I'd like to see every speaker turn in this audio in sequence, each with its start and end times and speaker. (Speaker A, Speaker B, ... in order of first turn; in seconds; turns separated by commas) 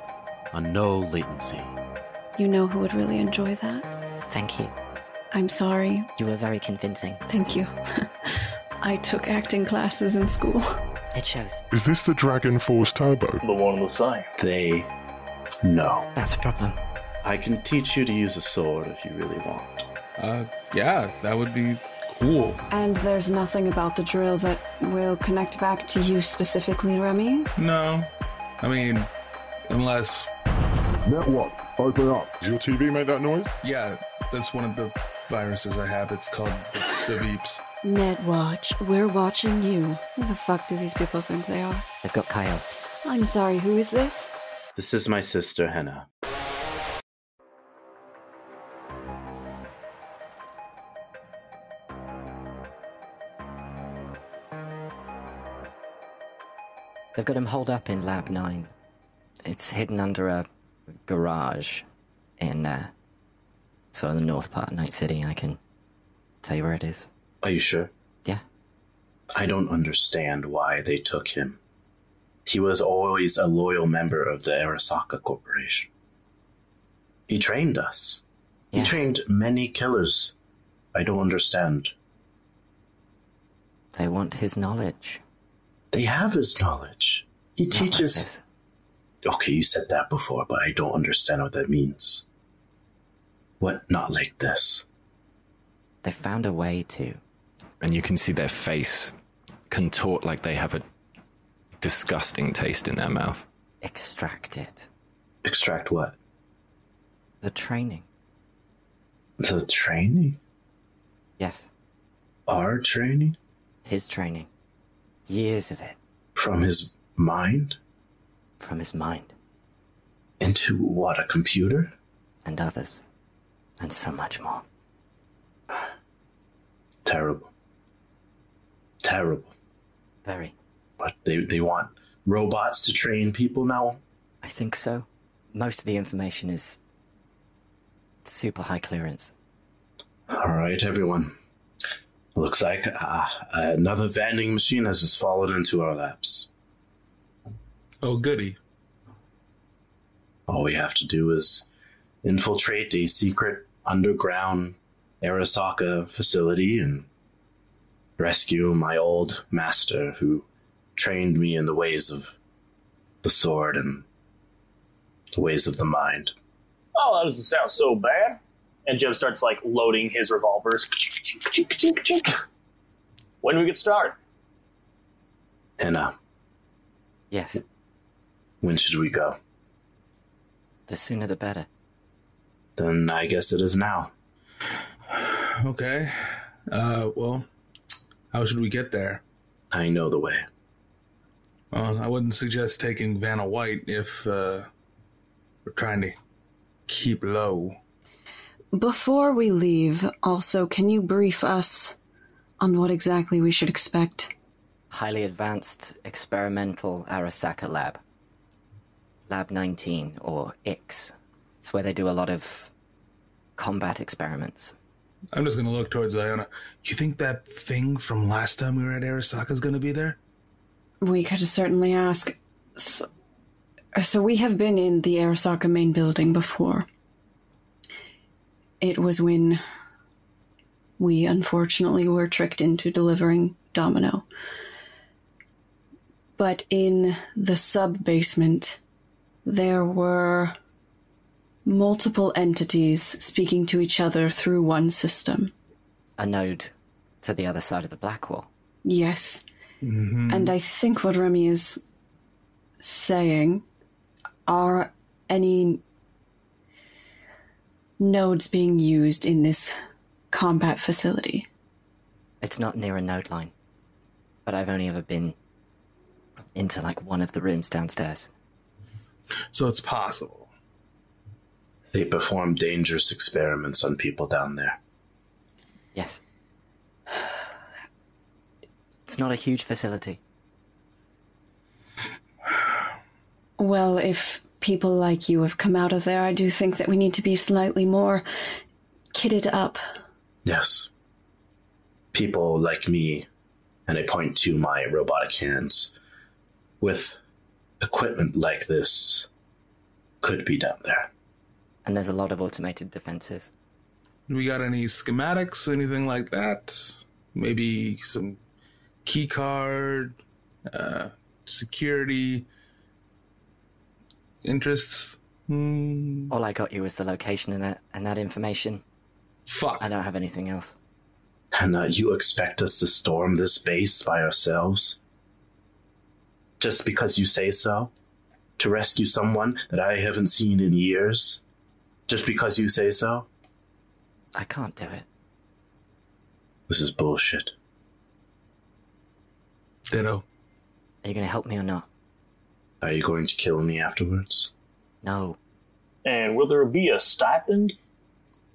Speaker A: 0.5-1.8, Speaker B: 2.4-3.9, Speaker C: 4.3-4.7, Speaker B: 5.3-6.1, Speaker C: 6.2-7.2, Speaker B: 7.3-8.1, Speaker B: 8.8-10.8, Speaker C: 11.1-11.6, Speaker D: 11.7-13.4, Speaker E: 13.4-14.3, Speaker A: 14.4-14.9, Speaker A: 15.6-16.1, Speaker C: 16.1-16.8, Speaker A: 17.2-19.7, Speaker F: 20.2-22.6, Speaker B: 22.7-27.5, Speaker F: 27.6-28.1, Speaker F: 28.6-29.1, Speaker F: 29.7-30.3, Speaker D: 30.9-33.5, Speaker F: 33.6-37.6, Speaker B: 37.8-41.9, Speaker C: 42.0-42.6, Speaker B: 43.0-44.3, Speaker A: 44.8-46.0, Speaker C: 57.1-58.7, Speaker C: 59.4-60.5, Speaker C: 61.0-61.9, Speaker C: 62.4-62.9, Speaker C: 63.9-65.6, Speaker C: 66.4-67.1, Speaker A: 67.4-67.9, Speaker A: 69.3-71.6, Speaker A: 72.5-75.9, Speaker A: 77.3-78.2, Speaker C: 78.7-79.1, Speaker A: 78.7-80.3, Speaker A: 80.9-81.9, Speaker C: 83.9-85.2, Speaker A: 85.9-88.2, Speaker C: 87.7-88.4, Speaker A: 89.2-92.2, Speaker A: 93.6-94.8, Speaker C: 96.0-97.2, Speaker G: 97.8-99.1, Speaker G: 99.7-100.8, Speaker G: 101.8-103.5, Speaker C: 103.8-104.9, Speaker A: 105.4-106.2, Speaker C: 107.4-108.0, Speaker A: 109.4-110.4, Speaker C: 111.4-111.7, Speaker A: 112.5-113.4, Speaker C: 113.8-114.5, Speaker C: 115.3-116.0, Speaker A: 116.3-117.8, Speaker C: 118.6-119.3, Speaker A: 120.4-121.9, Speaker C: 122.4-123.0, Speaker C: 123.8-124.6, Speaker A: 127.0-127.5, Speaker A: 129.0-129.5, Speaker C: 130.2-130.5, Speaker A: 131.0-134.0, Speaker C: 134.4-136.8, Speaker C: 138.2-139.3, Speaker A: 140.3-141.3, Speaker A: 142.3-146.5, Speaker F: 148.0-148.6, Speaker A: 150.5-151.6, Speaker A: 152.2-157.1, Speaker A: 158.2-162.3, Speaker A: 163.2-164.1, Speaker A: 165.3-166.3, Speaker E: 166.9-172.4, Speaker E: 173.4-174.2, Speaker A: 175.8-176.1, Speaker C: 177.3-177.6, Speaker A: 178.6-179.4, Speaker C: 180.9-181.7, Speaker A: 182.8-184.1, Speaker F: 185.1-187.5, Speaker F: 188.3-189.2, Speaker A: 189.7-190.5, Speaker F: 191.7-194.7, Speaker F: 195.7-196.2, Speaker F: 196.9-197.8, Speaker B: 198.7-201.9, Speaker B: 202.6-204.3, Speaker C: 204.9-208.0, Speaker C: 209.3-212.7, Speaker C: 213.6-214.7, Speaker F: 215.3-220.2, Speaker B: 221.0-223.1, Speaker B: 223.9-226.8, Speaker B: 228.8-229.6, Speaker B: 231.0-234.2, Speaker B: 236.4-238.8, Speaker B: 239.4-240.5, Speaker B: 241.7-245.5, Speaker C: 246.2-248.5, Speaker B: 248.8-249.4, Speaker F: 249.8-250.5, Speaker B: 250.3-251.8, Speaker B: 252.8-253.6, Speaker B: 254.5-255.8, Speaker B: 258.0-259.8, Speaker B: 260.3-261.5, Speaker C: 262.4-263.5, Speaker C: 264.4-265.4, Speaker C: 266.5-268.3, Speaker F: 269.5-270.5, Speaker A: 271.9-274.8, Speaker C: 275.9-276.2, Speaker C: 279.1-280.2, Speaker B: 283.6-288.2, Speaker B: 289.1-289.8, Speaker A: 290.4-290.9, Speaker A: 292.1-293.3, Speaker A: 293.9-295.9, Speaker A: 296.8-297.1, Speaker A: 297.8-299.3, Speaker A: 300.2-301.1, Speaker C: 301.8-303.5, Speaker F: 304.3-308.4, Speaker F: 309.0-312.5, Speaker F: 314.4-316.3, Speaker C: 316.3-318.8, Speaker F: 319.5-319.8, Speaker C: 319.8-320.8, Speaker A: 321.5-325.0, Speaker A: 326.6-327.9, Speaker A: 328.6-331.4, Speaker A: 332.1-333.3, Speaker C: 334.3-335.1, Speaker A: 336.7-337.5, Speaker F: 339.9-340.2, Speaker C: 341.0-341.9, Speaker A: 342.8-344.5, Speaker C: 345.0-345.4, Speaker E: 346.0-347.8